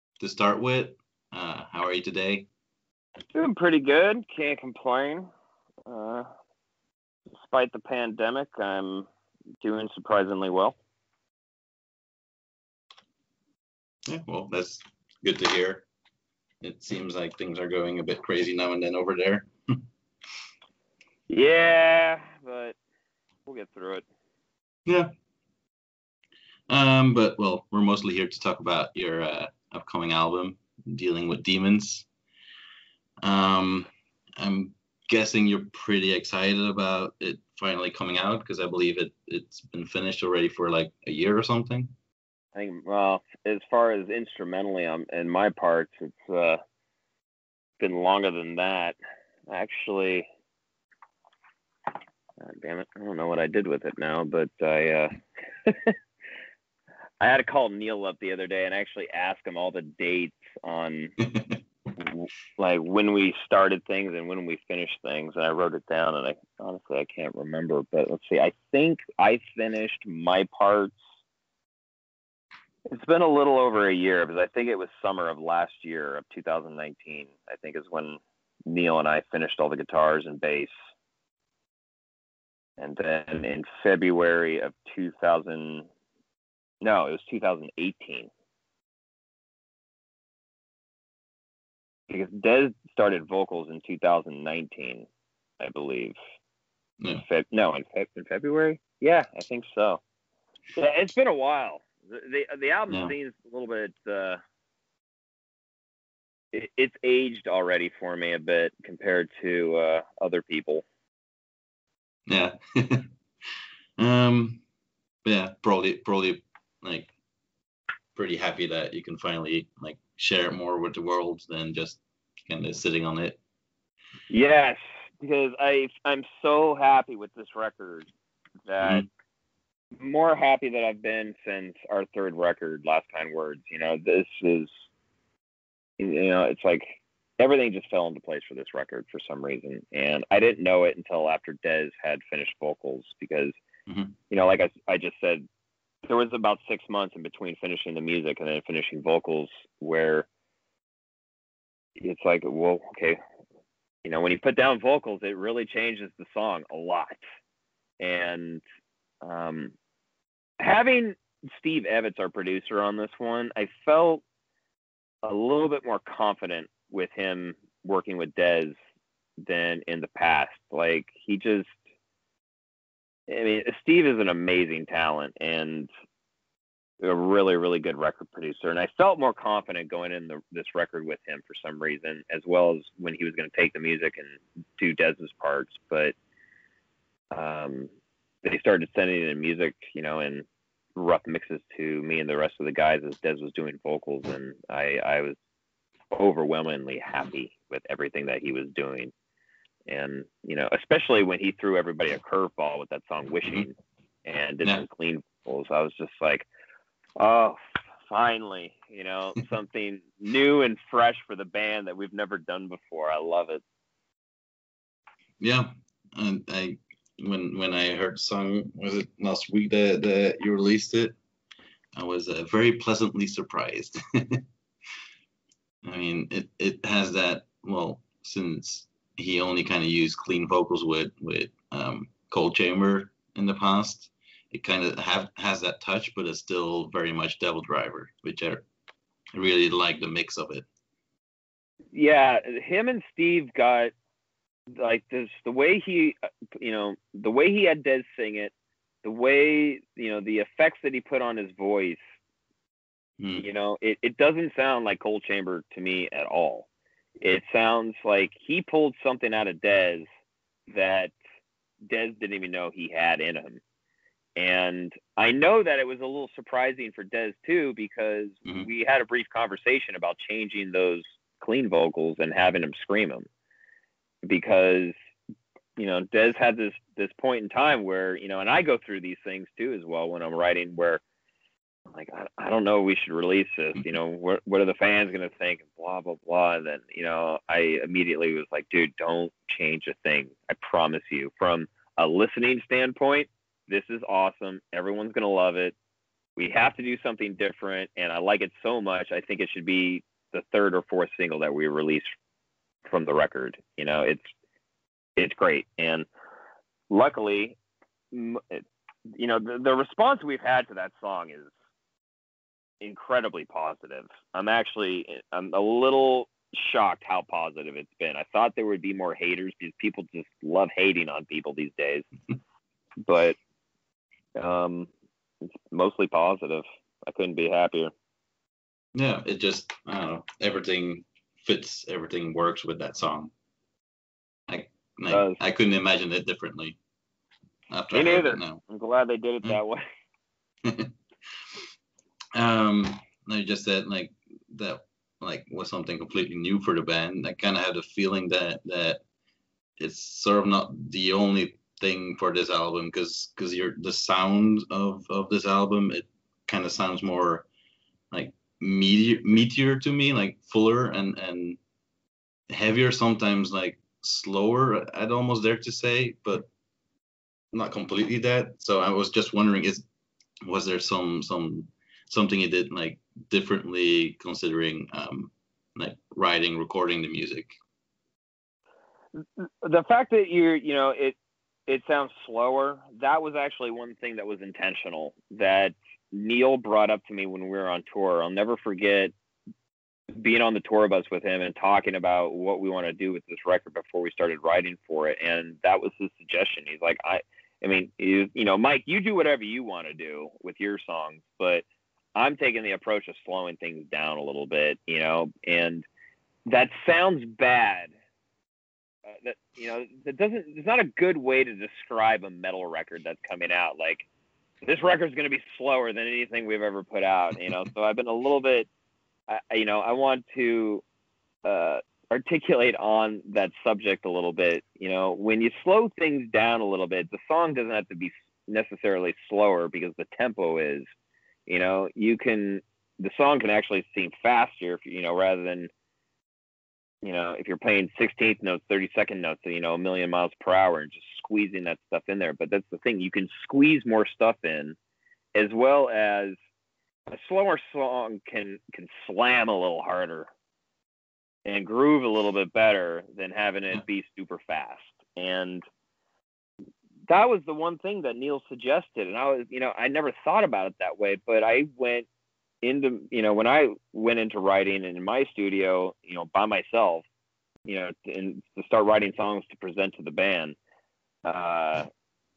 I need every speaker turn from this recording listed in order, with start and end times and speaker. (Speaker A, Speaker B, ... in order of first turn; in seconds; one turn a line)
Speaker A: 0.2-2.5
Speaker B: 3.3-5.3
Speaker B: 5.9-6.3
Speaker B: 7.3-9.1
Speaker B: 9.6-10.8
Speaker A: 14.1-15.8
Speaker A: 16.6-19.8
Speaker B: 21.3-22.8
Speaker B: 23.5-24.0
Speaker A: 26.7-32.1
Speaker A: 33.2-41.9
Speaker B: 42.5-46.6
Speaker B: 47.8-49.0
Speaker B: 49.5-50.3
Speaker B: 52.4-55.1
Speaker B: 55.6-56.0
Speaker B: 57.2-61.1
Speaker B: 62.0-71.0
Speaker B: 72.9-80.7
Speaker B: 82.8-85.9
Speaker B: 86.8-88.3
Speaker B: 92.1-95.1
Speaker B: 95.6-96.2
Speaker B: 97.2-100.0
Speaker B: 100.7-104.4
Speaker B: 106.5-110.8
Speaker A: 112.3-114.6
Speaker A: 115.2-117.1
Speaker A: 118.2-123.4
Speaker B: 124.3-128.1
Speaker B: 128.7-129.1
Speaker B: 130.0-134.7
Speaker B: 136.0-143.6
Speaker A: 143.9-144.1
Speaker B: 144.3-145.4
Speaker B: 146.1-150.3
Speaker B: 152.0-153.2
Speaker B: 154.0-157.2
Speaker B: 158.0-158.6
Speaker B: 159.2-159.7
Speaker B: 160.6-164.2
Speaker B: 165.2-168.8
Speaker B: 169.4-171.7
Speaker B: 173.3-175.9
Speaker B: 177.0-186.1
Speaker B: 187.3-187.9
Speaker B: 188.4-195.4
Speaker B: 196.1-199.1
Speaker B: 199.9-206.5
Speaker B: 207.2-213.6
Speaker A: 215.4-221.2
Speaker A: 221.9-224.4
Speaker A: 225.8-238.6
Speaker A: 239.3-240.7
Speaker B: 241.9-243.9
Speaker B: 244.8-248.5
Speaker B: 249.0-252.0
Speaker A: 253.2-253.4
Speaker B: 253.4-256.7
Speaker B: 257.2-260.1
Speaker B: 260.7-261.1
Speaker B: 261.9-263.6
Speaker B: 264.4-273.3
Speaker B: 274.2-274.9
Speaker B: 275.8-281.0
Speaker B: 281.9-295.8
Speaker B: 296.4-302.1
Speaker B: 302.9-304.3
Speaker B: 305.2-306.1
Speaker B: 306.9-307.6
Speaker B: 308.1-308.7
Speaker B: 309.2-311.5
Speaker B: 312.8-322.1
Speaker B: 323.0-323.4
Speaker B: 324.4-324.9
Speaker B: 325.7-327.9
Speaker A: 328.9-333.3
Speaker A: 334.5-336.8
Speaker B: 335.1-335.4
Speaker A: 337.7-338.6
Speaker B: 337.9-339.8
Speaker A: 340.6-341.6
Speaker A: 342.3-349.0
Speaker A: 349.8-357.4
Speaker A: 358.1-361.6
Speaker A: 362.5-366.5
Speaker A: 367.5-369.8
Speaker A: 370.4-377.6
Speaker B: 379.2-389.1
Speaker B: 390.1-401.6
Speaker B: 402.2-405.9
Speaker B: 406.5-407.9
Speaker B: 409.1-414.1
Speaker B: 414.6-418.7
Speaker B: 419.3-420.8
Speaker B: 421.4-430.9
Speaker B: 431.5-435.7
Speaker B: 437.0-444.8
Speaker B: 445.4-446.4
Speaker B: 447.1-450.3
Speaker B: 451.4-455.6
Speaker B: 457.1-462.1
Speaker B: 462.6-467.1
Speaker B: 467.7-470.6
Speaker B: 471.2-471.9